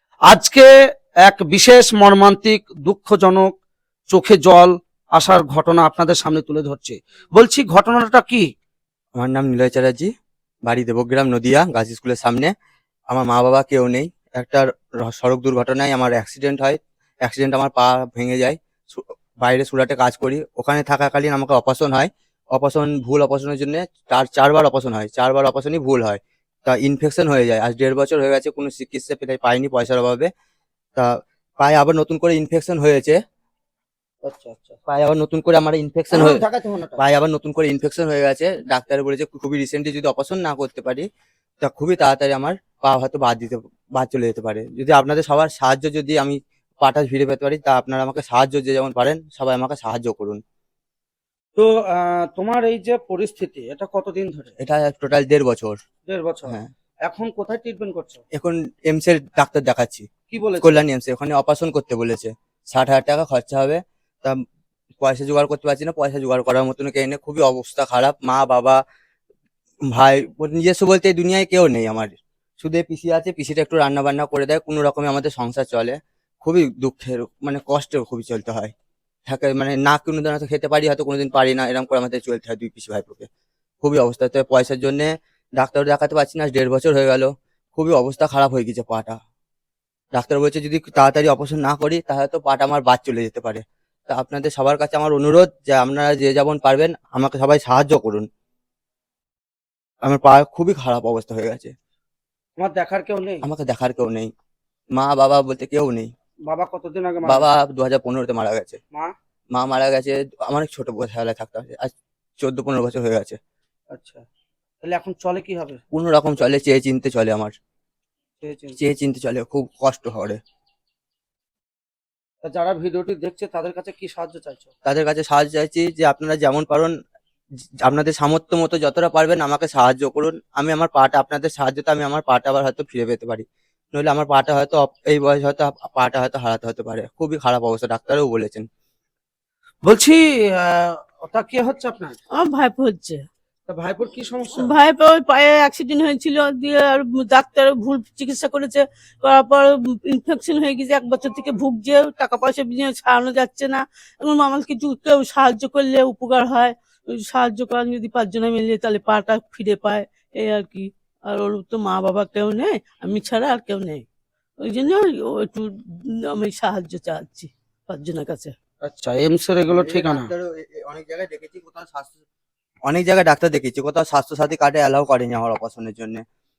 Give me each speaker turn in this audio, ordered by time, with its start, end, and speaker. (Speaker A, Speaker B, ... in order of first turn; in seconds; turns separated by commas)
Speaker A: 0.3-0.7, Speaker A: 1.2-3.5, Speaker A: 4.1-8.4, Speaker B: 9.1-10.1, Speaker B: 10.7-12.5, Speaker B: 13.1-30.3, Speaker B: 30.9-33.2, Speaker A: 34.2-34.8, Speaker B: 34.9-36.4, Speaker A: 36.1-37.0, Speaker B: 37.0-41.0, Speaker B: 41.6-50.4, Speaker A: 51.5-54.5, Speaker B: 54.6-55.8, Speaker A: 56.1-58.2, Speaker B: 58.4-60.0, Speaker A: 60.3-60.7, Speaker B: 60.6-64.4, Speaker B: 65.0-68.8, Speaker B: 69.9-78.7, Speaker B: 79.3-83.3, Speaker B: 83.8-89.2, Speaker B: 90.2-98.2, Speaker B: 100.0-101.7, Speaker A: 102.6-103.4, Speaker B: 103.4-104.3, Speaker B: 104.9-106.1, Speaker A: 106.5-107.4, Speaker B: 107.2-108.8, Speaker B: 109.5-113.4, Speaker A: 113.9-114.2, Speaker A: 114.8-115.8, Speaker B: 115.9-117.5, Speaker A: 118.4-118.8, Speaker B: 118.8-120.4, Speaker A: 122.4-124.7, Speaker B: 124.8-126.9, Speaker B: 127.8-138.6, Speaker A: 139.8-142.2, Speaker C: 142.3-143.2, Speaker A: 143.7-144.7, Speaker C: 144.6-164.0, Speaker C: 164.6-168.5, Speaker A: 168.8-170.3, Speaker B: 169.7-172.1, Speaker B: 172.9-176.2